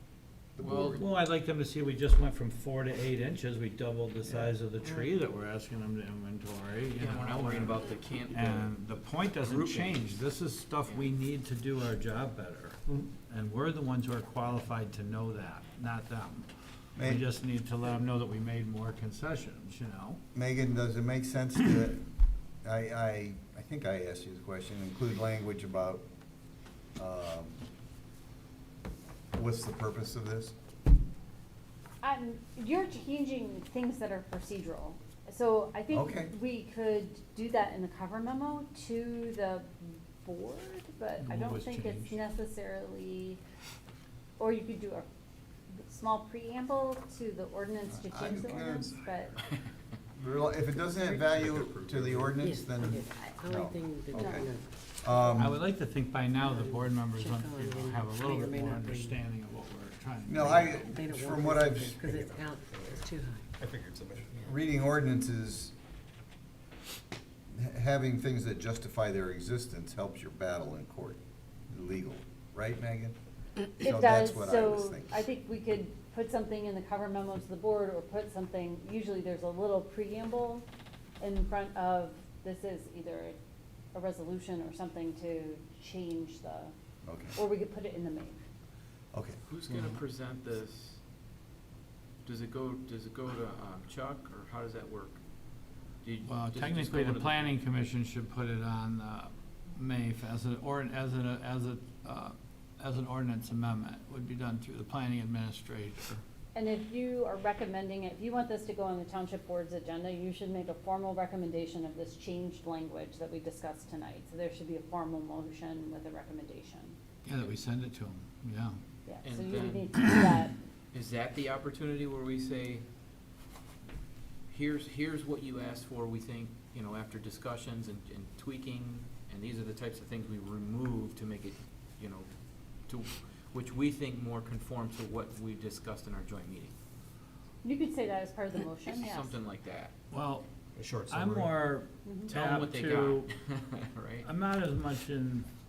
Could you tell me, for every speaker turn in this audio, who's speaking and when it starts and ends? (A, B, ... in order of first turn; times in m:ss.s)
0:00.5-0:01.1 A
0:00.6-0:01.0 B
0:01.0-0:20.2 C
0:04.2-0:04.5 A
0:07.0-0:08.7 B
0:09.4-0:10.1 B
0:17.0-0:17.2 A
0:20.3-0:22.0 A
0:22.6-0:26.0 A
0:27.0-0:27.6 A
0:29.3-0:30.5 A
0:32.0-0:43.4 D
0:35.9-0:36.3 A
0:41.2-0:42.2 C
0:44.4-0:45.0 D
0:45.7-0:49.3 D
0:47.9-0:49.0 A
0:50.2-0:54.5 A
0:50.7-0:51.3 E
0:51.3-0:52.5 F
0:52.4-0:55.5 E
0:54.1-0:54.5 D
0:55.0-0:55.6 A
0:55.4-1:01.1 C
0:56.3-0:59.2 E
1:00.2-1:02.0 A
1:00.9-1:03.5 E
1:01.9-1:03.0 F
1:03.5-1:04.6 F
1:04.4-1:05.7 A
1:07.5-1:13.2 A
1:13.8-1:15.3 A
1:13.8-1:20.6 D
1:21.2-1:23.4 D
1:23.9-1:26.7 D
1:27.0-1:27.4 A
1:27.3-1:28.4 D
1:29.1-1:29.4 A
1:29.5-1:31.0 B
1:32.2-1:35.2 B
1:36.0-1:37.5 B
1:36.2-1:46.2 C
1:46.5-1:57.0 D
1:57.2-1:58.8 C
1:59.0-2:00.5 D
1:59.2-2:00.0 B
2:00.9-2:02.8 B
2:04.5-2:12.3 B
2:12.8-2:16.7 B
2:17.6-2:19.4 D
2:18.9-2:19.9 B
2:20.1-2:20.4 C
2:20.8-2:21.6 F
2:21.1-2:23.3 C
2:22.0-2:22.3 D
2:22.2-2:24.3 B
2:24.2-2:25.5 C